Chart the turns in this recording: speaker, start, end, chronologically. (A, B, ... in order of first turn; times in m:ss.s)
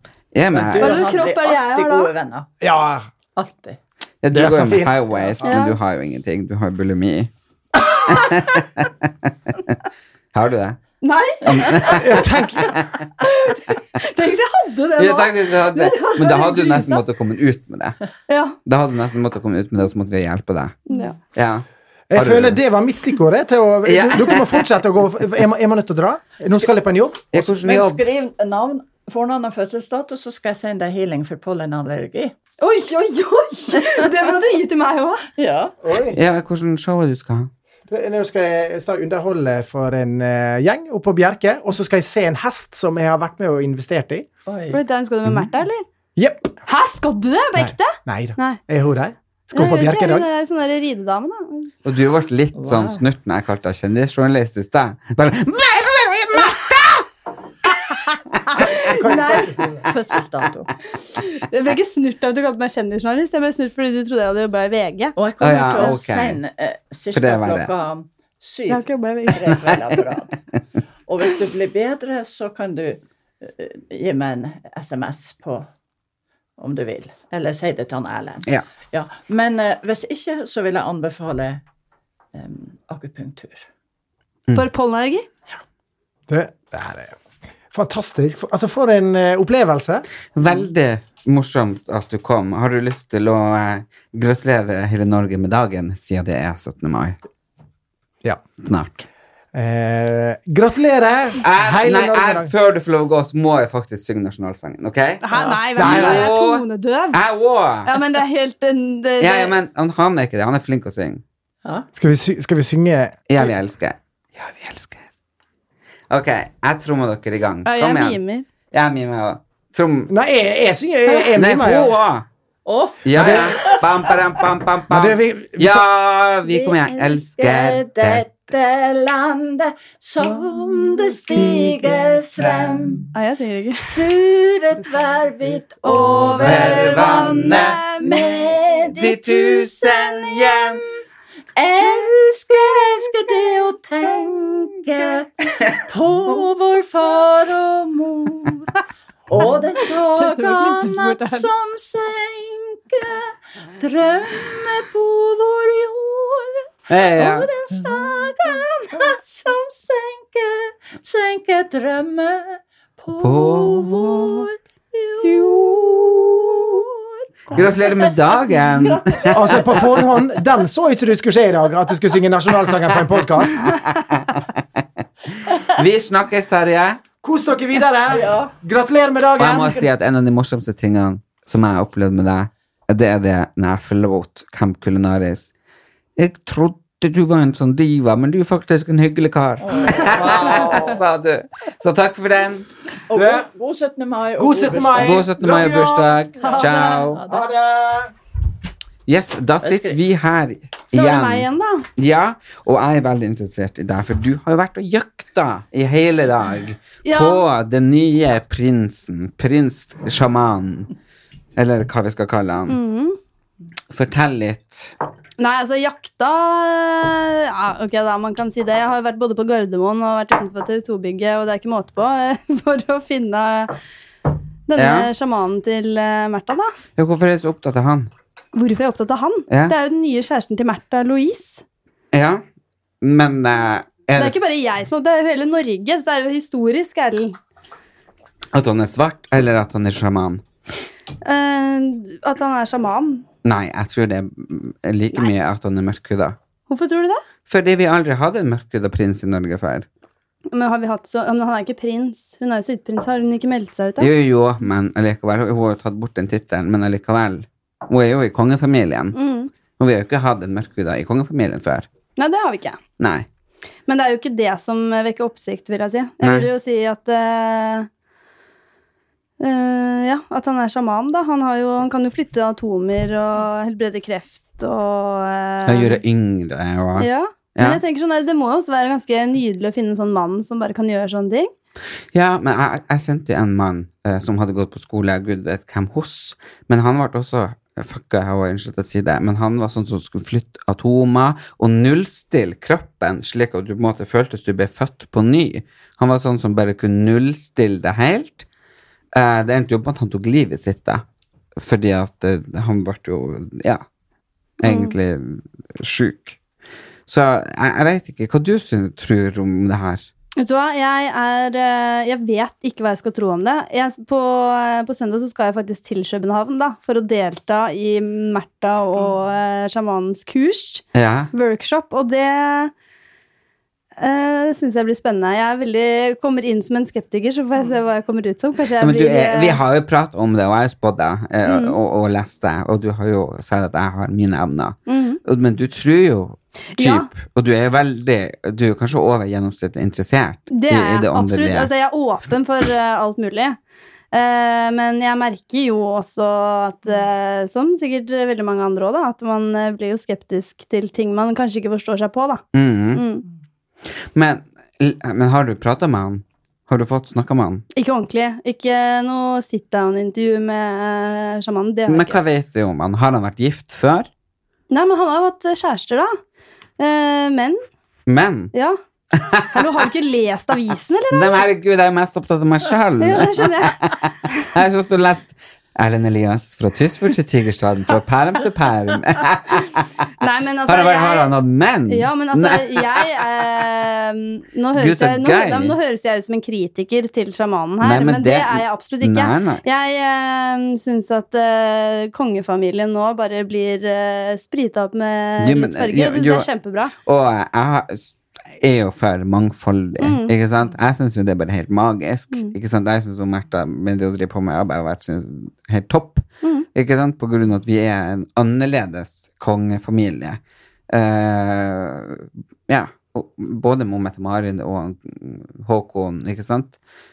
0:00.3-0:01.1 A
0:00.5-0:02.5 B
0:00.8-0:02.1 C
0:02.6-0:03.1 D
0:03.4-0:03.8 B
0:04.2-0:07.3 A
0:04.3-0:05.5 D
0:05.4-0:05.8 C
0:08.0-0:08.9 A
0:10.3-0:10.8 A
0:11.0-0:12.7 C
0:11.4-0:13.0 A
0:12.0-0:12.7 D
0:13.2-0:17.0 C
0:15.0-0:18.0 A
0:18.3-0:18.6 C
0:18.6-0:20.8 A
0:20.9-0:21.2 C
0:21.3-0:22.6 A
0:22.1-0:27.5 D
0:23.8-0:24.6 A
0:27.3-0:28.0 A
0:27.6-0:32.3 B
0:32.6-0:35.3 C
0:35.4-0:35.7 B
0:35.8-0:36.2 D
0:36.1-0:37.5 A
0:37.9-0:44.3 D
0:44.5-0:44.8 B
0:44.7-0:45.8 C
0:46.2-0:46.6 D
0:46.7-0:48.6 C
0:47.6-0:50.3 D
0:49.5-0:51.7 C
0:51.8-0:57.0 A
0:52.6-0:53.0 B
0:58.6-0:59.5 C
0:58.8-0:59.9 D
0:59.8-1:00.7 B
1:01.0-1:05.1 C
1:05.2-1:10.4 B
1:05.4-1:06.4 A
1:07.1-1:07.7 A
1:08.7-1:09.5 C
1:11.1-1:15.7 B
1:16.6-1:21.6 B
1:22.3-1:23.7 B
1:24.5-1:25.2 C
1:26.3-1:27.1 D
1:27.7-1:30.0 D
1:30.3-1:37.2 A
1:38.6-1:39.1 A
1:39.5-1:42.5 D
1:41.4-1:45.2 A
1:45.2-1:47.2 C
1:45.3-1:45.6 B
1:45.8-1:46.3 D
1:45.8-1:48.0 A
1:47.8-1:49.5 C
1:49.2-1:51.2 A
1:51.9-1:53.2 D
1:53.3-1:55.0 A
1:56.1-1:58.2 A
1:57.6-1:58.4 C
1:58.7-2:00.1 A
2:00.1-2:01.9 D
2:01.4-2:02.2 A
2:02.6-2:04.1 B
2:03.0-2:08.3 A
2:03.1-2:03.7 D
2:04.9-2:05.8 D
2:06.5-2:13.1 B
2:10.3-2:10.6 D
2:11.3-2:11.6 D
2:13.1-2:14.1 C
2:13.9-2:20.6 B
2:15.8-2:18.5 C
2:16.4-2:17.8 A
2:18.9-2:20.8 A
2:21.6-2:25.3 B
2:25.9-2:28.7 B
2:29.3-2:49.9 B
2:30.1-2:31.5 C
2:36.9-2:37.5 A
2:43.2-2:44.4 A
2:45.5-2:46.2 D
2:47.5-2:49.6 A
2:49.3-2:53.7 D
2:55.7-2:57.0 A
2:57.2-2:59.9 D
2:58.1-2:58.5 B
2:59.4-3:05.5 A
3:06.2-3:12.7 A
3:09.6-3:11.0 B
3:13.1-3:15.5 B
3:13.1-3:13.5 D
3:14.4-3:16.2 D
3:15.0-3:17.2 A
3:16.4-3:17.4 B
3:16.4-3:17.1 C
3:17.3-3:18.1 D
3:19.1-3:30.9 A
3:19.6-3:20.0 B
3:20.9-3:21.8 C
3:27.0-3:27.4 C
3:31.6-3:32.8 A
3:32.7-3:33.2 C
3:33.9-3:35.0 A
3:35.4-3:43.7 C
3:44.7-3:46.7 C
3:44.8-3:45.1 A
3:47.0-3:48.1 A
3:48.5-3:51.6 C
3:49.5-3:49.7 A
3:52.1-3:52.4 A
3:53.0-3:54.4 A
3:54.2-3:57.4 C
3:58.5-4:00.4 A
4:01.2-4:03.2 C
4:03.4-4:06.4 A
4:06.7-4:07.2 C
4:07.5-4:09.9 A
4:10.5-4:14.1 C
4:14.0-4:19.2 A
4:19.1-4:19.5 C
4:19.8-4:21.9 A
4:22.2-4:22.8 C
4:23.0-4:23.2 A
4:23.9-4:27.9 C
4:26.2-4:26.5 A
4:29.4-4:36.0 C
4:35.6-4:37.8 A
4:37.0-4:41.5 C
4:42.1-4:58.4 A
4:59.1-5:01.0 A
5:01.6-5:03.8 A
5:04.6-5:06.4 A
5:04.6-5:05.0 C
5:07.1-5:10.1 A
5:10.4-5:22.7 C
5:20.9-5:21.3 A
5:24.0-5:29.6 C
5:28.8-5:41.7 A
5:31.4-5:31.8 C
5:34.9-5:35.2 C
5:36.8-5:37.1 C
5:40.5-5:43.6 C
5:44.1-5:52.4 C
5:52.5-5:53.0 A
5:52.9-5:53.2 C
5:54.1-5:57.6 A
5:57.8-6:02.2 C
6:01.9-6:04.1 A
6:04.7-6:06.2 C
6:06.8-6:07.6 C
6:08.1-6:08.5 A
6:08.5-6:08.8 C
6:09.1-6:09.6 A
6:09.5-6:11.4 C
6:11.1-6:19.8 A
6:13.0-6:13.9 C
6:20.2-6:21.3 C
6:20.6-6:23.5 A
6:21.9-6:36.9 C
6:24.7-6:25.7 A
6:27.8-6:29.6 A
6:35.4-6:36.5 A
6:37.0-6:56.8 A
6:40.0-6:40.3 C